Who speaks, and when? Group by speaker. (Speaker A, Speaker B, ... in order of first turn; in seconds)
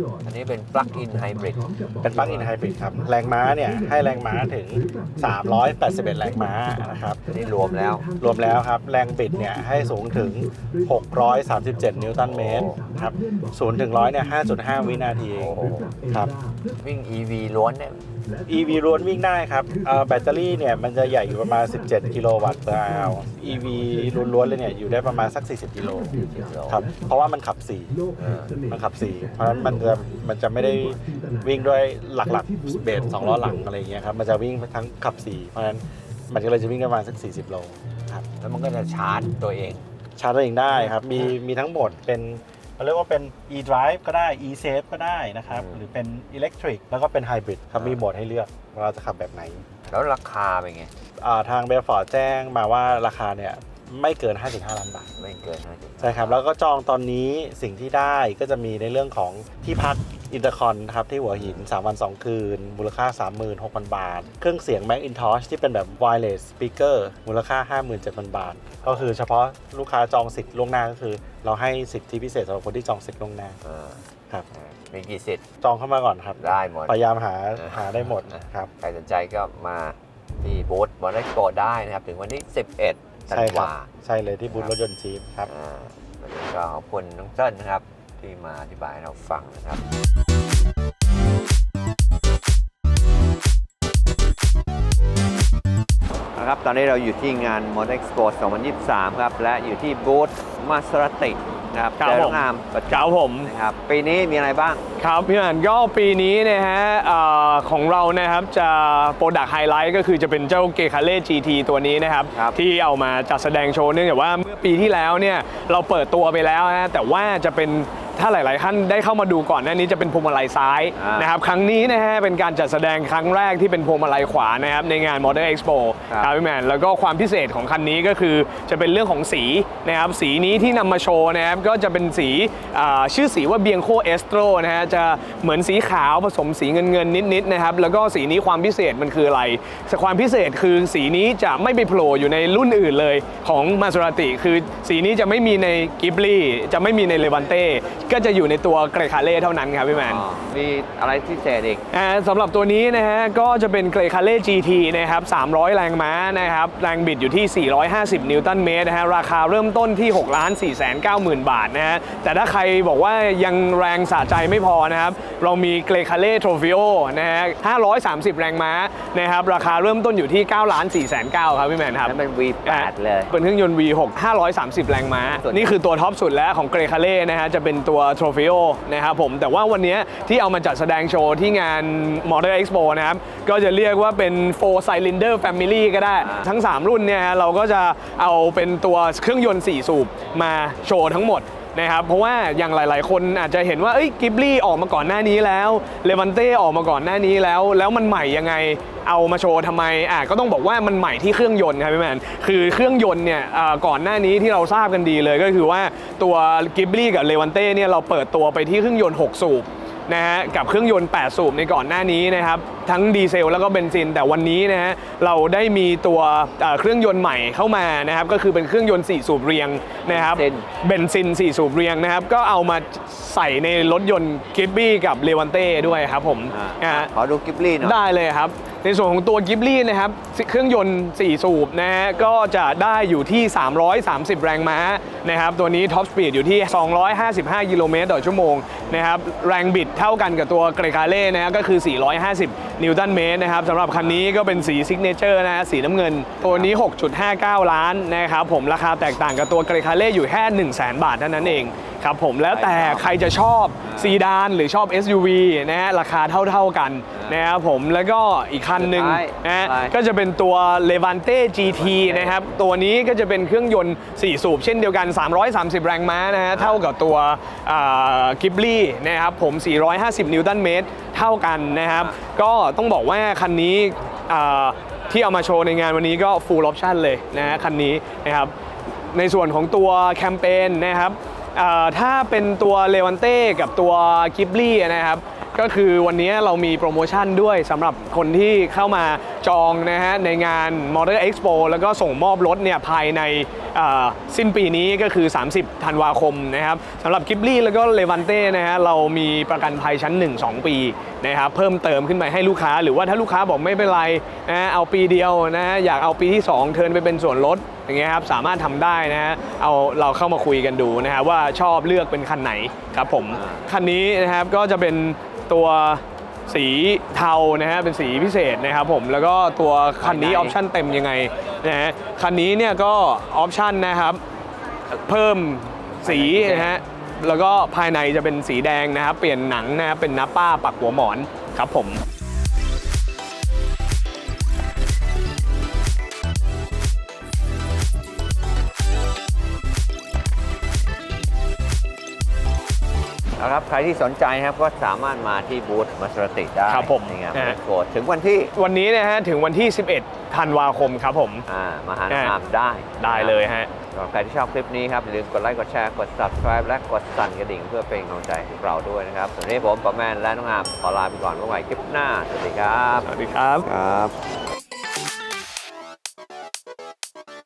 Speaker A: 0.2-2.5, 7.2-8.0, 12.2-12.8, 15.3-15.9, 16.7-18.0, 26.1-26.8, 28.2-28.6, 38.4-39.8, 40.7-41.3, 45.5-45.8, 47.8-48.0, 49.9-50.9, 55.2-56.4, 61.3-61.7, 68.8-69.1, 73.6-74.0, 74.5-75.4, 76.4-77.0, 77.6-83.9, 84.5-84.7, 85.5-89.8, 96.3-104.8, 112.3-112.6, 121.0-121.3, 149.9-151.8, 172.0-173.3, 175.2-175.8, 186.2-186.5, 220.1-220.7, 226.5-228.0, 243.9-244.2, 246.4-246.7, 252.5-253.2, 253.8-254.2, 257.1-257.4, 258.8-260.0, 261.6-262.4, 266.5-266.9, 313.3-313.6, 320.0-320.6, 326.0-326.7, 343.4-348.5, 351.5-363.1, 363.6-364.2
Speaker B: 2.0-7.2, 8.2-16.4, 18.5-26.2, 26.7-27.9, 28.7-38.2, 40.2-49.7, 51.2-55.1, 56.0-73.6, 75.6-78.7, 83.3-85.5
Speaker C: 102.0-103.5, 105.0-150.2, 151.9-227.1, 227.8-278.5, 279.1-324.2, 324.9-332.0, 346.7-347.6, 348.5-351.4, 352.1-352.3, 353.0-353.7, 363.0-363.7